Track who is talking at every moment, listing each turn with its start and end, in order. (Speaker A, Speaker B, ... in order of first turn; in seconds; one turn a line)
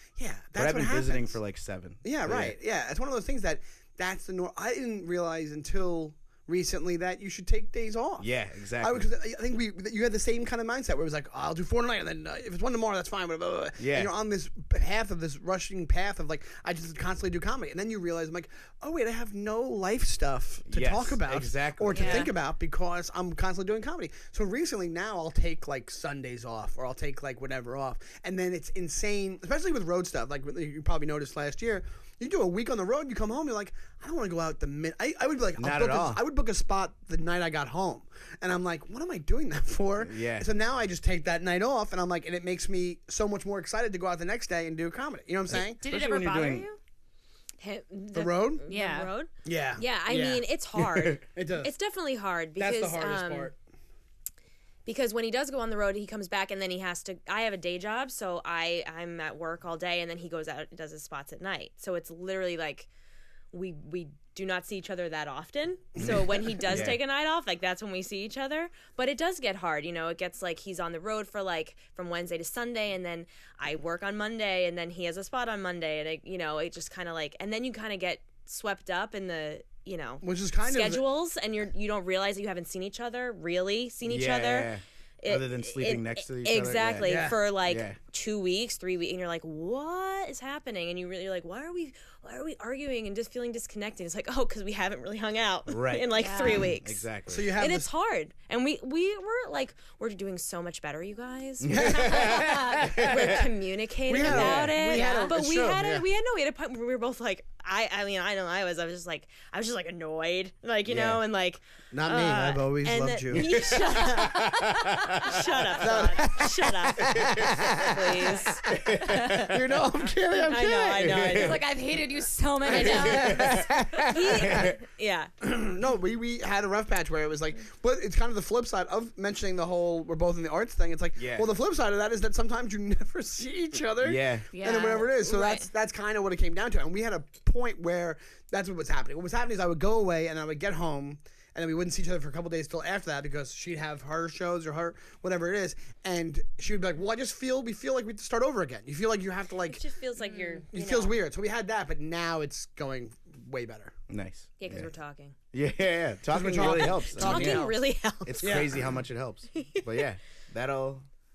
Speaker A: 0.2-1.4
Speaker B: 0.6-2.5
Speaker A: 2.0-45.8
Speaker B: 8.2-9.1
Speaker B: 13.8-14.1
Speaker B: 20.7-22.3
Speaker C: 21.9-22.3
Speaker B: 35.6-36.2
Speaker B: 40.0-40.5
Speaker B: 45.5-46.7
Speaker C: 45.8-46.8
Speaker D: 47.6-53.5
Speaker A: 48.1-48.6
Speaker C: 48.7-49.1
Speaker A: 49.4-50.5
Speaker B: 50.9-51.2
Speaker A: 51.2-51.7
Speaker A: 52.5-53.6
Speaker D: 54.9-62.9
Speaker D: 63.5-118.6
Speaker B: 66.0-67.0
Speaker A: 80.2-81.0
Speaker B: 84.0-88.0
Speaker A: 87.0-87.4
Speaker B: 95.7-97.5
Speaker C: 96.1-96.7
Speaker A: 97.3-97.9
Speaker B: 101.6-103.4
Speaker A: 101.7-103.4
Speaker A: 104.0-106.0
Speaker B: 104.2-104.8
Speaker C: 104.8-105.4
Speaker B: 110.8-111.2
Speaker A: 111.9-114.0
Speaker B: 113.3-115.4
Speaker A: 115.8-121.3
Speaker B: 117.1-117.8
Speaker B: 118.7-119.6
Speaker D: 120.4-121.7
Speaker B: 121.0-121.6
Speaker C: 121.3-123.8
Speaker A: 122.7-124.7
Speaker B: 122.7-123.7
Speaker D: 122.8-123.2
Speaker D: 124.0-125.3
Speaker B: 124.3-124.8
Speaker A: 125.4-149.8
Speaker B: 131.2-131.5
Speaker B: 134.0-134.5
Speaker C: 134.5-135.1
Speaker D: 135.2-135.7
Speaker D: 149.7-151.2
Speaker C: 150.2-150.6
Speaker A: 150.7-153.9
Speaker B: 154.1-154.9
Speaker D: 154.6-155.3
Speaker B: 155.5-157.7
Speaker A: 156.3-157.7
Speaker D: 156.4-158.8
Speaker B: 158.2-161.1
Speaker A: 158.4-158.8
Speaker D: 159.5-160.0